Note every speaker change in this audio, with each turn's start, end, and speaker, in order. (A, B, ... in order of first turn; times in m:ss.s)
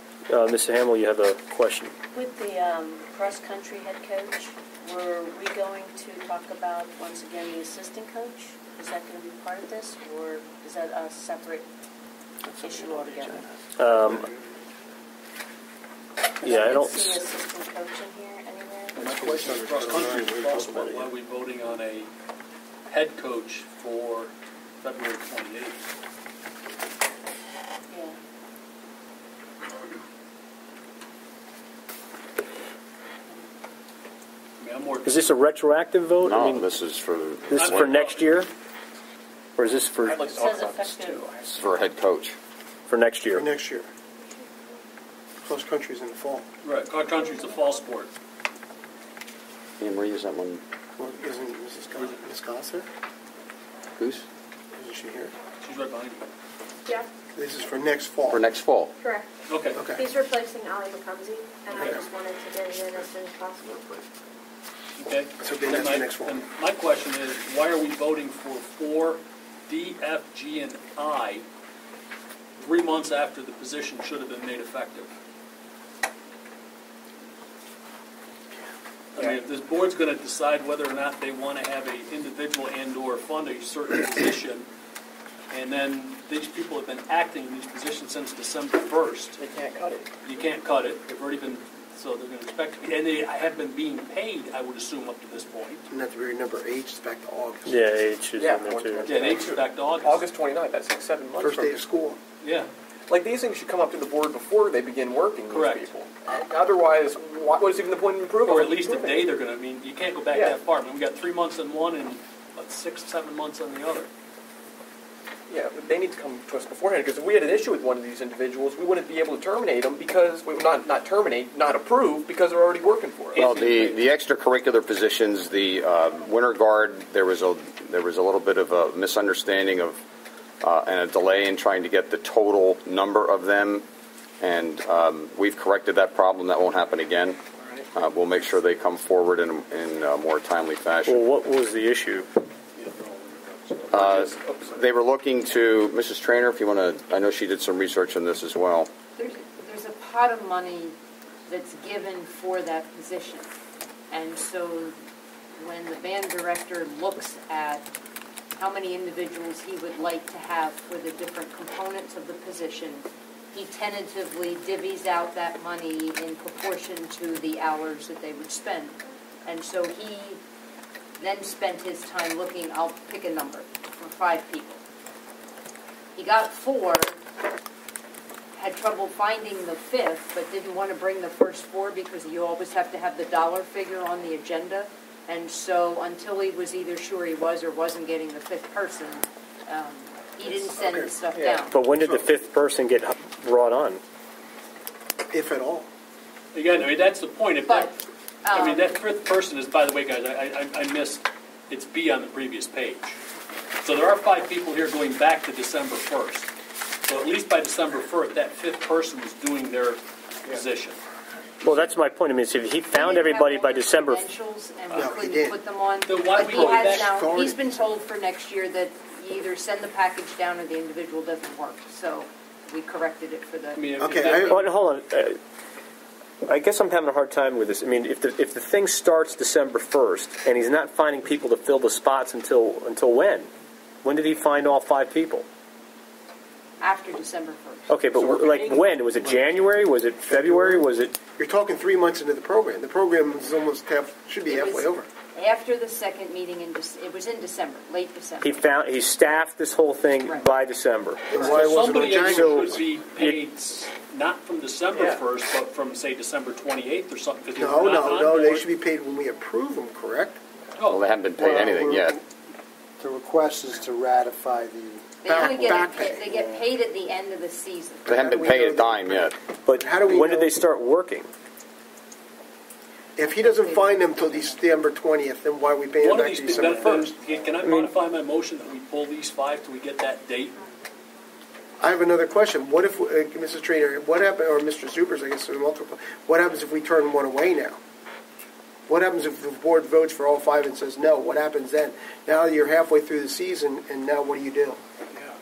0:00.3-0:01.9 A
0:02.1-0:11.7 B
0:12.5-0:13.4 C
0:12.6-0:13.5 B
0:13.8-0:14.2 A
0:16.4-0:19.1 B
0:16.4-0:17.2 A
0:19.0-0:22.1 D
0:19.0-0:21.1 E
0:22.9-0:25.8 D
0:27.9-0:28.2 B
0:34.6-0:35.3 D
0:35.0-0:36.6 A
0:36.2-0:37.9 C
0:37.5-0:38.5 A
0:37.6-0:38.3 D
0:39.6-0:40.2 A
0:40.0-0:41.6 F
0:40.3-0:41.3 B
0:41.5-0:42.4 C
0:42.9-0:43.4 A
0:43.3-0:43.9 G
0:45.4-0:46.4 G
0:46.6-0:48.1 D
0:49.8-0:50.6 C
0:51.0-0:52.9 G
0:54.0-0:54.2 C
0:54.7-0:55.3 G
0:55.6-0:56.2 D
0:57.3-0:58.4 G
0:58.3-0:58.9 C
0:59.0-0:59.3 H
0:59.5-0:59.8 D
0:59.7-1:00.0 G
0:59.9-1:04.0 H
1:01.7-1:02.0 G
1:05.0-1:11.4 D
1:05.4-1:06.4 G
1:12.6-1:15.1 D
1:19.2-1:24.7 D
1:25.5-1:29.4 D
1:29.4-1:30.1 F
1:30.2-1:35.8 D
1:35.9-1:37.9 G
1:37.7-1:39.3 A
1:38.4-1:41.7 F
1:39.1-1:40.2 D
1:41.4-1:42.2 G
1:42.4-1:42.7 D
1:43.1-1:49.3 F
1:45.5-1:45.9 D
1:48.4-1:54.1 D
1:50.3-1:50.6 F
1:55.5-2:03.6 F
2:03.3-2:04.0 D
2:03.4-2:10.0 C
2:10.6-2:13.8 C
2:14.4-2:17.4 C
2:17.6-2:17.9 F
2:17.9-2:21.3 C
2:21.0-2:22.3 A
2:22.8-2:24.8 F
2:23.9-2:28.9 C
2:29.2-2:30.9 I
2:31.5-2:33.5 I
2:34.1-2:34.9 I
2:35.6-2:37.8 I
2:38.6-2:50.4 I
2:51.2-2:54.8 I
2:56.2-2:57.1 I
2:58.6-3:11.8 I
3:10.5-3:11.6 F
3:11.7-3:14.0 A
3:15.3-3:15.9 G
3:16.5-3:18.0 D
3:17.6-3:18.9 I
3:18.5-3:23.2 D
3:23.8-3:26.5 D
3:27.1-3:31.0 D
3:31.6-3:34.2 A
3:32.9-3:43.8 I
3:34.9-3:35.6 G
3:36.0-3:37.1 D
3:36.4-3:37.7 G
3:43.7-3:44.7 D
3:44.0-3:44.6 G
3:44.5-3:45.4 A
3:46.4-3:53.5 A
3:54.0-3:55.4 A
3:56.8-3:58.0 I
3:57.9-4:01.1 A
3:58.1-3:58.9 F
3:59.2-3:59.5 G
4:00.3-4:05.1 G
4:04.5-4:08.6 I
4:08.4-4:11.2 A
4:10.2-4:10.5 I
4:11.3-4:12.8 G
4:11.3-4:12.0 I
4:11.3-4:18.7 D
4:12.2-4:13.4 A
4:14.9-4:15.2 F
4:17.5-4:20.4 G
4:20.9-4:22.2 C
4:21.4-4:22.2 G
4:21.4-4:21.9 E
4:23.0-4:25.0 E
4:25.2-4:28.1 I
4:25.3-4:26.3 G
4:28.0-4:30.5 G
4:28.1-4:29.4 C
4:29.6-4:31.3 A
4:33.2-4:37.1 G
4:33.3-4:34.6 I
4:36.0-4:40.6 D
4:37.6-4:37.9 A
4:41.8-4:47.8 G
4:48.9-4:54.8 G